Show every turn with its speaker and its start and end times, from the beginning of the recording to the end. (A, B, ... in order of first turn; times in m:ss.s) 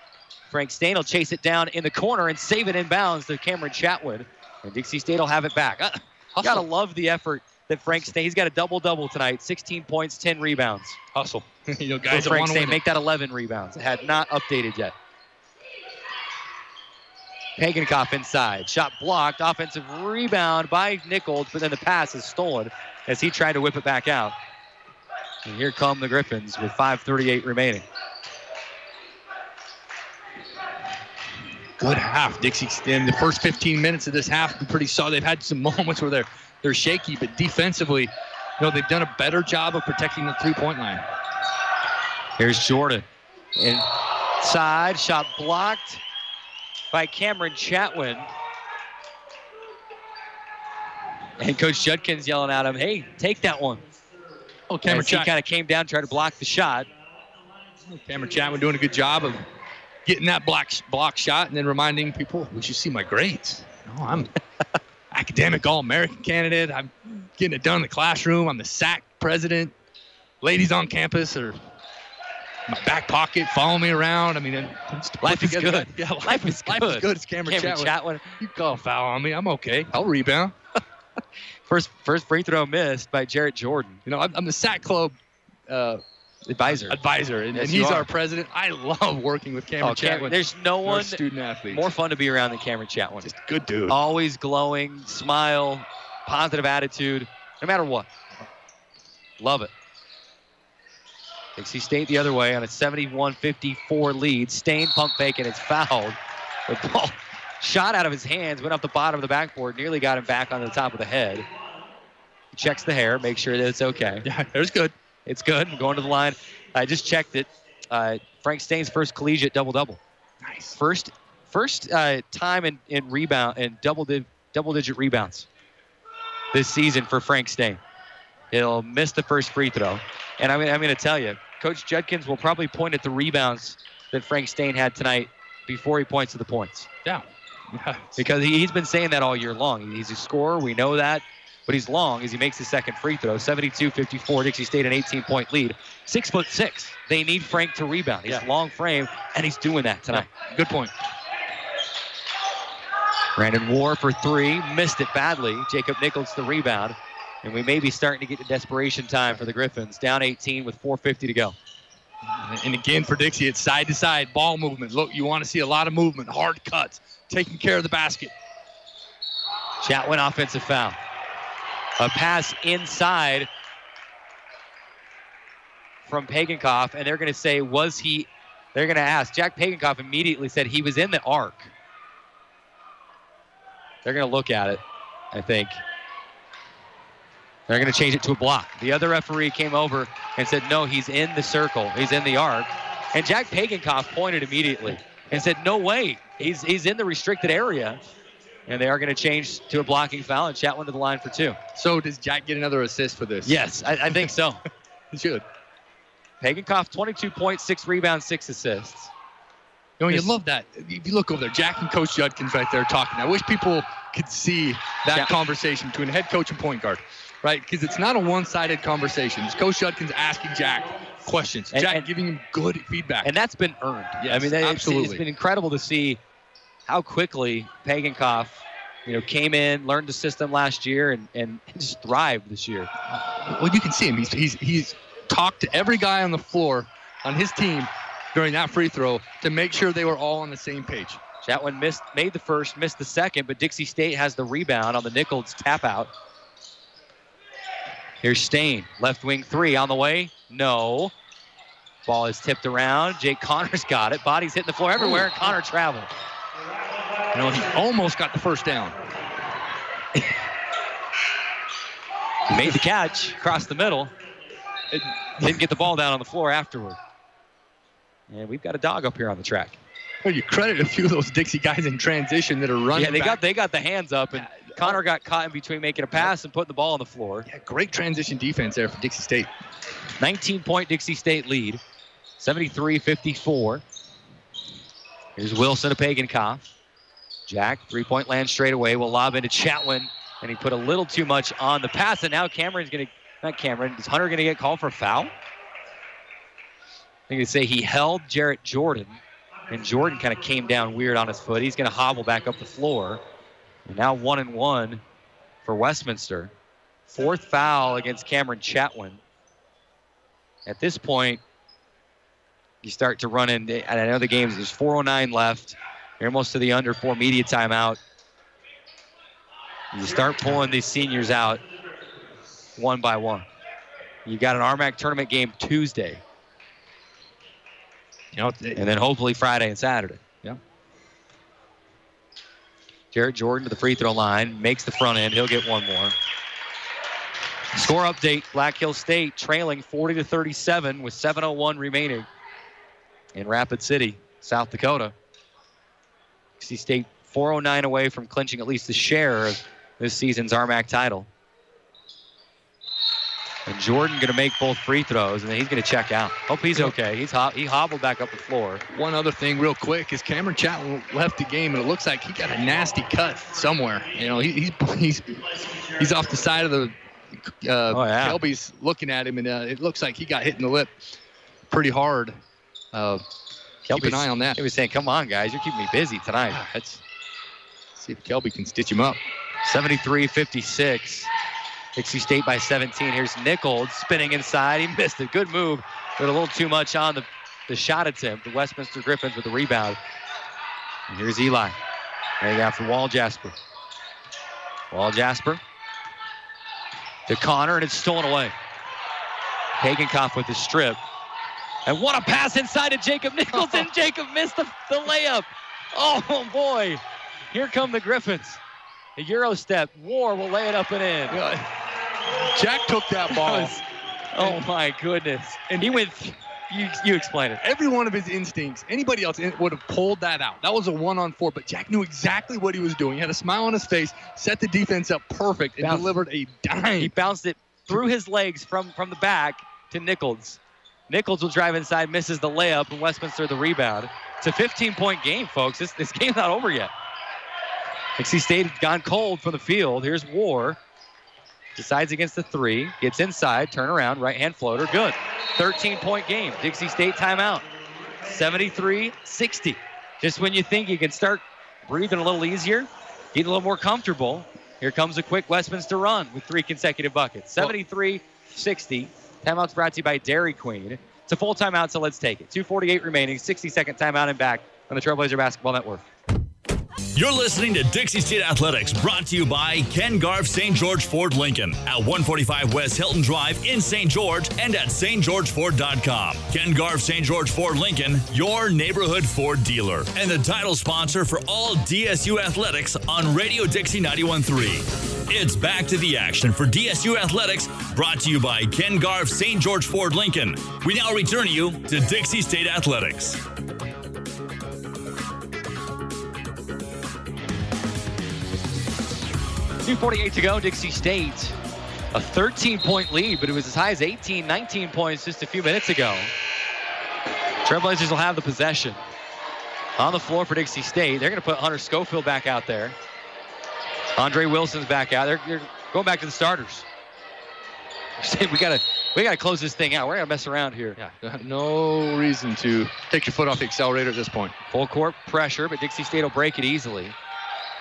0:00.5-0:11.0 A
0:06.3-0:06.7 B
0:11.1-0:12.8 B
0:12.1-0:14.9 A
0:17.6-0:24.3 A
0:25.4-0:27.8 A
0:31.8-0:41.1 B
0:42.4-0:46.0 A
0:46.9-0:48.3 A
0:51.4-0:53.8 A
0:54.7-0:55.3 B
0:54.9-0:56.9 A
0:57.8-0:59.5 B
1:00.0-1:04.3 B
1:05.1-1:09.7 B
1:10.4-1:11.6 B
1:12.7-1:20.6 B
1:15.2-1:18.4 A
1:21.7-1:24.0 A
1:24.0-1:25.2 B
1:25.7-1:26.0 B
1:26.5-1:27.0 A
1:26.6-1:31.9 B
1:27.5-1:28.1 A
1:29.8-1:33.3 A
1:33.2-1:34.0 B
1:33.9-1:38.1 A
1:39.4-1:39.7 A
1:41.6-1:51.4 A
1:52.5-1:54.2 A
1:54.2-1:54.9 B
1:55.2-2:00.0 A
2:00.4-2:00.8 B
2:00.8-2:05.5 A
2:06.5-2:07.8 A
2:08.5-2:16.9 A
2:17.0-2:18.2 B
2:18.2-2:30.3 A
2:30.1-2:30.9 B
2:33.4-2:41.6 A
2:42.2-2:48.3 B
2:49.8-2:51.0 A
2:52.0-2:53.5 A
2:56.0-3:01.7 A
3:04.0-3:04.8 A
3:05.3-3:05.8 A
3:07.7-3:18.0 A
3:18.7-3:21.6 A
3:21.7-3:24.3 B
3:23.4-3:24.6 A
3:25.1-3:25.4 B
3:26.4-3:29.1 A
3:30.0-3:43.3 B
3:41.7-3:42.1 A
3:43.2-3:46.2 A
3:44.2-3:45.2 B
3:46.9-3:52.9 A
3:53.1-4:01.2 B
4:01.4-4:06.1 A
4:08.2-4:11.1 A
4:12.0-4:16.1 A
4:15.0-4:15.5 B
4:17.3-4:19.0 B
4:22.5-4:24.1 A
4:24.9-4:25.6 B
4:25.4-4:27.0 A
4:28.3-4:29.8 A
4:30.2-4:33.4 B
4:32.9-4:37.4 A
4:34.3-4:35.0 B
4:37.4-4:39.5 B
4:40.2-4:41.8 A
4:42.4-4:43.8 A
4:45.4-4:46.7 A
4:47.5-4:55.3 A
4:57.3-4:59.2 A
4:59.7-5:03.2 A
5:03.8-5:05.0 A
5:05.6-5:06.5 A
5:07.1-5:09.2 A
5:10.6-5:11.4 A
5:12.8-5:18.0 A
5:19.9-5:21.6 A
5:22.8-5:23.5 A
5:24.2-5:26.2 A
5:28.3-5:28.9 B
5:28.7-5:30.2 A
5:33.1-5:36.1 A
5:37.7-5:42.3 A
5:43.3-5:45.1 A
5:46.6-5:51.3 A
5:53.7-5:58.8 A
5:58.9-6:11.0 B
6:07.9-6:08.4 A
6:11.7-6:12.4 B
6:12.9-6:13.2 B
6:13.8-6:16.6 A
6:13.9-6:14.6 B
6:16.5-6:17.0 B
6:18.0-6:19.2 B
6:19.6-6:21.3 A
6:22.0-6:30.0 A
6:31.1-6:31.8 A
6:32.4-6:33.5 A
6:34.9-6:35.6 A
6:37.3-6:38.5 A
6:39.8-6:41.0 A
6:41.8-6:47.0 A
6:47.5-6:48.6 A
6:49.2-6:51.4 A
6:51.3-6:51.7 B
6:52.3-6:53.8 B
6:53.3-6:53.8 A
6:54.3-6:57.6 A
6:55.7-6:56.1 B
6:57.6-7:07.1 B
7:05.8-7:06.1 A
7:07.0-7:16.9 A
7:18.2-7:20.8 A
7:21.7-7:27.6 A
7:28.2-7:46.0 A
7:47.1-8:13.4 C
8:19.8-8:21.6 A
8:22.1-8:26.3 A
8:27.6-8:29.0 A
8:30.0-8:33.0 A
8:34.2-8:36.8 A
8:38.2-8:41.0 A
8:41.0-8:44.5 B
8:44.7-8:47.1 A